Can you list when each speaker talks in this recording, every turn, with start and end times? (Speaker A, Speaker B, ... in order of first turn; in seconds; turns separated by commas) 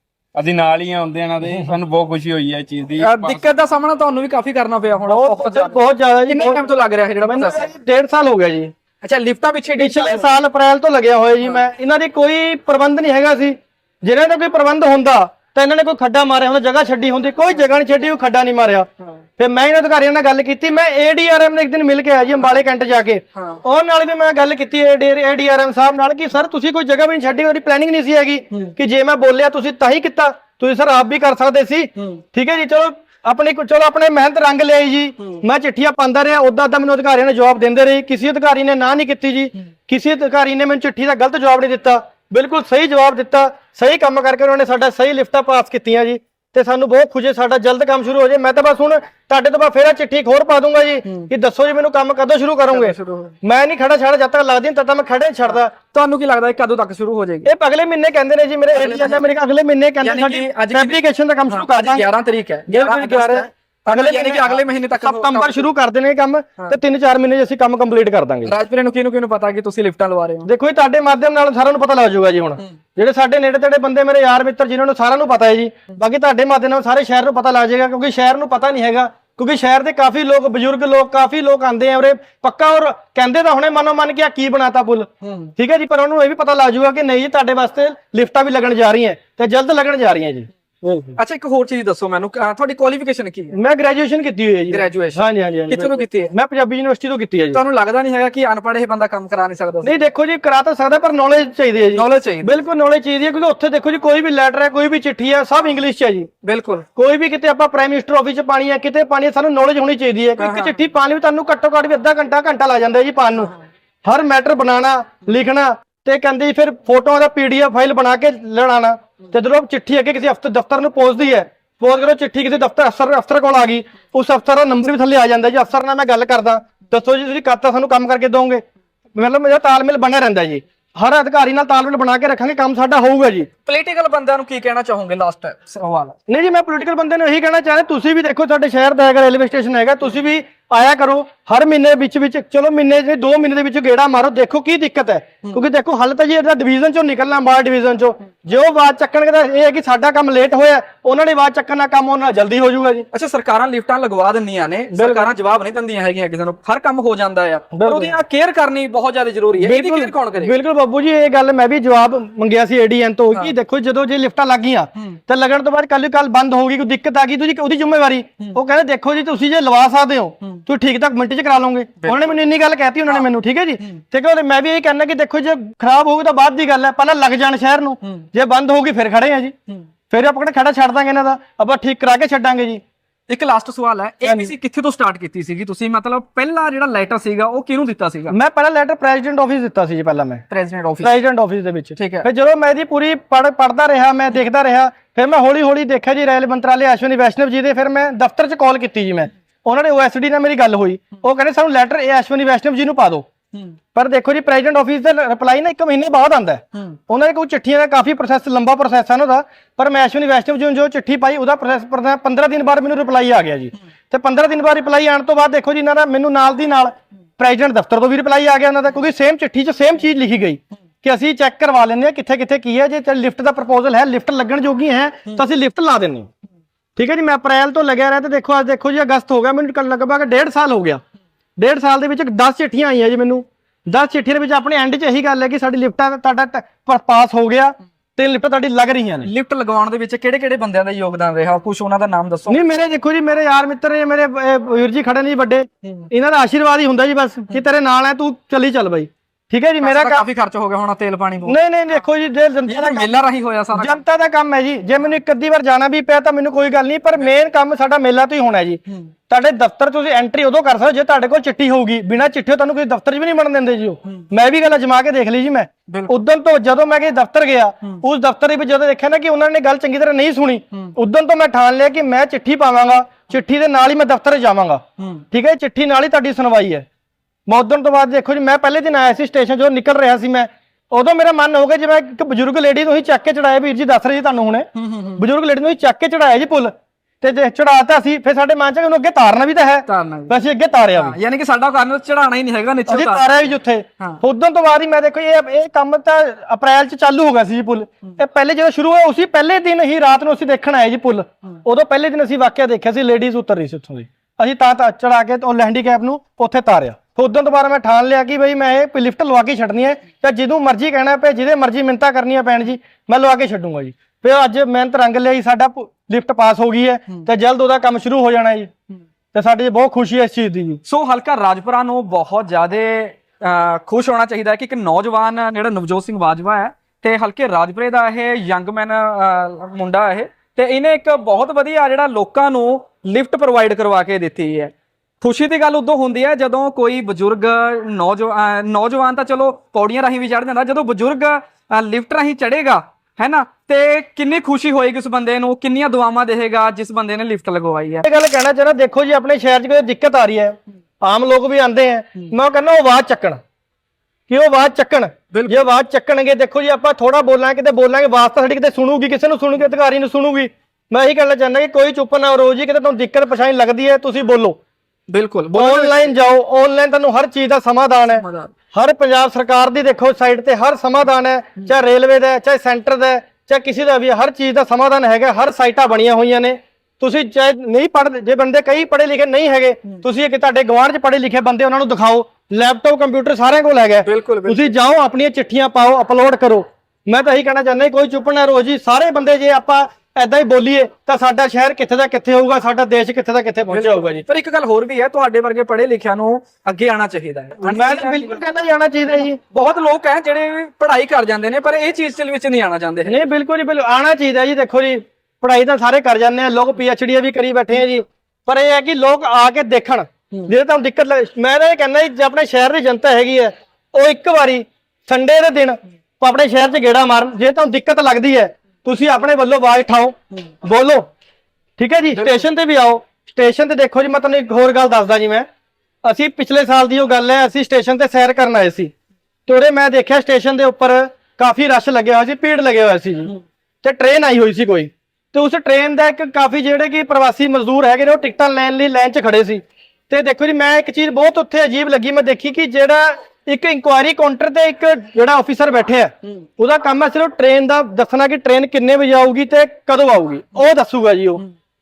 Speaker A: 0.3-3.4, Speaker B: 3.0-7.7, Speaker C: 5.1-6.6, Speaker C: 7.2-8.7, Speaker B: 9.0-10.2, Speaker C: 9.7-55.7, Speaker B: 11.4-11.7, Speaker B: 23.3-23.6, Speaker B: 51.0-51.3, Speaker B: 52.7-53.3, Speaker B: 55.5-57.5, Speaker C: 57.4-62.0, Speaker B: 58.7-59.2, Speaker B: 60.0-65.7, Speaker C: 62.7-68.5, Speaker B: 68.5-70.5, Speaker C: 70.4-91.2, Speaker B: 85.2-85.5, Speaker B: 91.2-93.5, Speaker C: 93.5-97.6, Speaker B: 94.7-96.3, Speaker B: 97.5-99.9, Speaker C: 99.8-106.3, Speaker B: 101.9-102.6, Speaker B: 106.4-106.8, Speaker C: 106.9-113.5, Speaker B: 110.4-110.8, Speaker C: 114.0-128.6, Speaker C: 129.2-133.5, Speaker B: 133.7-136.1, Speaker C: 136.3-153.1, Speaker B: 153.1-160.5, Speaker C: 154.9-155.3, Speaker C: 157.7-158.2, Speaker C: 159.6-179.5, Speaker B: 172.0-172.4, Speaker B: 178.0-178.3, Speaker C: 180.1-182.8, Speaker B: 183.3-188.3, Speaker C: 184.2-184.5, Speaker C: 188.3-190.4, Speaker B: 190.5-191.1, Speaker C: 191.0-203.3, Speaker B: 191.9-192.2, Speaker C: 203.9-226.3, Speaker C: 226.9-231.0, Speaker C: 231.6-239.3, Speaker B: 239.2-242.6, Speaker C: 242.5-250.2, Speaker B: 249.8-251.5, Speaker C: 251.4-253.1, Speaker B: 252.7-254.0, Speaker C: 253.7-276.8, Speaker B: 265.9-266.1, Speaker B: 275.0-275.2, Speaker C: 277.5-291.2, Speaker B: 284.7-285.2, Speaker B: 289.9-290.4, Speaker B: 290.9-294.2, Speaker C: 292.9-318.7, Speaker C: 319.3-320.8, Speaker B: 320.9-348.1, Speaker C: 348.0-353.4, Speaker C: 354.3-364.6, Speaker B: 355.3-355.6, Speaker B: 365.1-366.1, Speaker C: 365.5-394.2, Speaker B: 368.2-368.5, Speaker B: 384.1-384.7, Speaker B: 393.7-398.4, Speaker C: 397.6-399.4, Speaker B: 399.2-403.2, Speaker C: 403.1-421.1, Speaker C: 421.8-425.5, Speaker B: 422.1-422.5, Speaker C: 426.0-428.9, Speaker C: 429.5-451.4